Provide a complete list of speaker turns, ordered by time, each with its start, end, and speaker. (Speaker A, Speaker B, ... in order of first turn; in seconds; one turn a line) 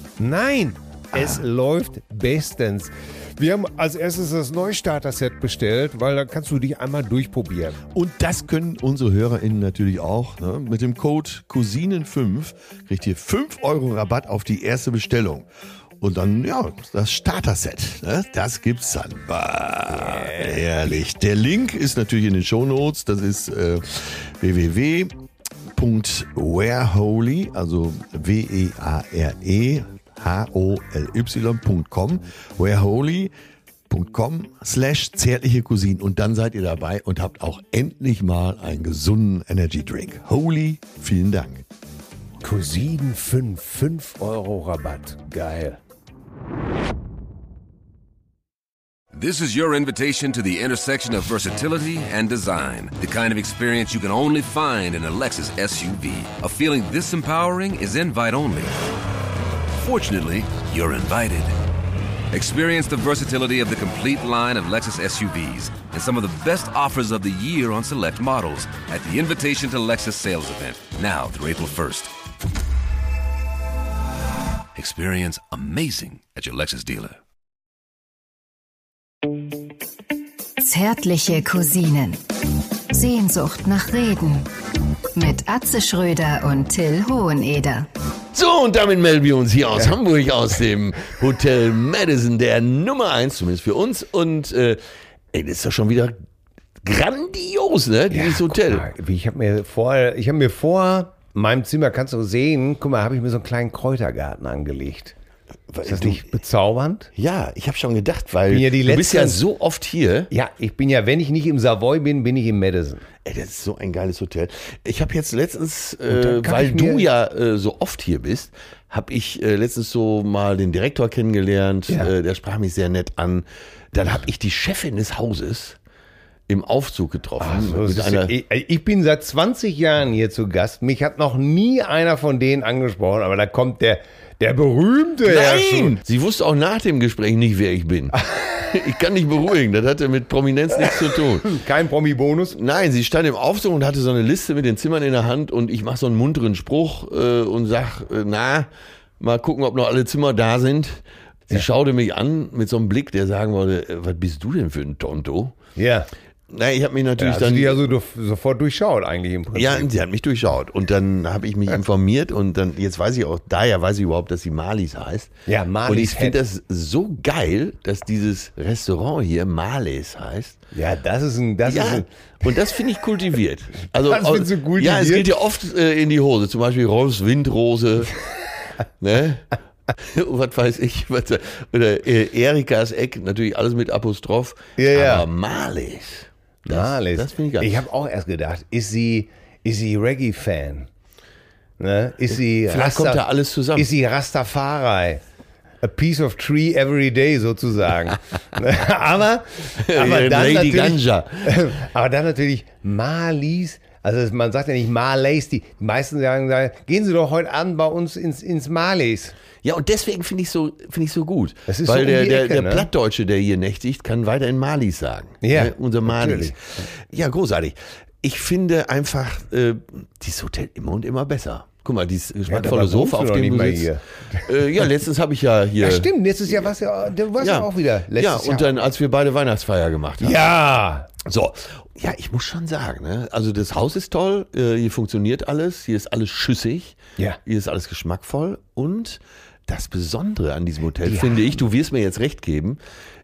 Speaker A: 0.2-7.8
Speaker B: 1.1-1.4
Speaker B: 7.9-15.5
Speaker B: 16.0-25.1
Speaker A: 20.1-20.6
Speaker B: 25.7-33.3
Speaker B: 33.9-41.6
Speaker A: 42.4-45.8
Speaker C: 49.1-58.7
Speaker C: 59.7-61.5
Speaker C: 62.3-72.1
Speaker C: 74.7-77.2
Speaker D: 80.6-82.2
Speaker D: 82.9-84.5
Speaker D: 85.1-87.9
Speaker B: 88.3-94.8
Speaker B: 95.3-96.1
Speaker B: 96.8-98.9
Speaker A: 98.1-105.2
Speaker B: 105.7-106.3
Speaker A: 105.8-107.1
Speaker B: 107.1-110.3
Speaker A: 108.5-109.4
Speaker A: 110.3-113.0
Speaker B: 113.2-125.8
Speaker A: 116.1-117.1
Speaker B: 126.5-128.3
Speaker A: 127.4-136.0
Speaker B: 135.2-141.5
Speaker A: 138.3-138.5
Speaker A: 140.9-142.6
Speaker B: 142.5-148.7
Speaker B: 149.2-155.6
Speaker A: 155.8-156.1
Speaker B: 156.5-157.8
Speaker A: 157.2-159.9
Speaker B: 159.5-165.3
Speaker A: 165.4-166.4
Speaker B: 165.8-170.6
Speaker A: 170.7-172.1
Speaker B: 171.6-178.1
Speaker A: 173.8-175.3
Speaker B: 179.0-187.8
Speaker A: 184.8-185.2
Speaker A: 186.6-190.9
Speaker A: 191.8-193.2
Speaker B: 192.3-193.9
Speaker A: 193.8-195.2
Speaker A: 195.8-209.3
Speaker B: 199.8-201.5
Speaker B: 209.6-226.5
Speaker A: 211.7-212.9
Speaker A: 215.4-216.6
Speaker A: 222.4-224.8
Speaker A: 225.8-228.8
Speaker B: 227.4-230.4
Speaker A: 230.2-231.1
Speaker B: 231.2-242.8
Speaker A: 241.0-241.5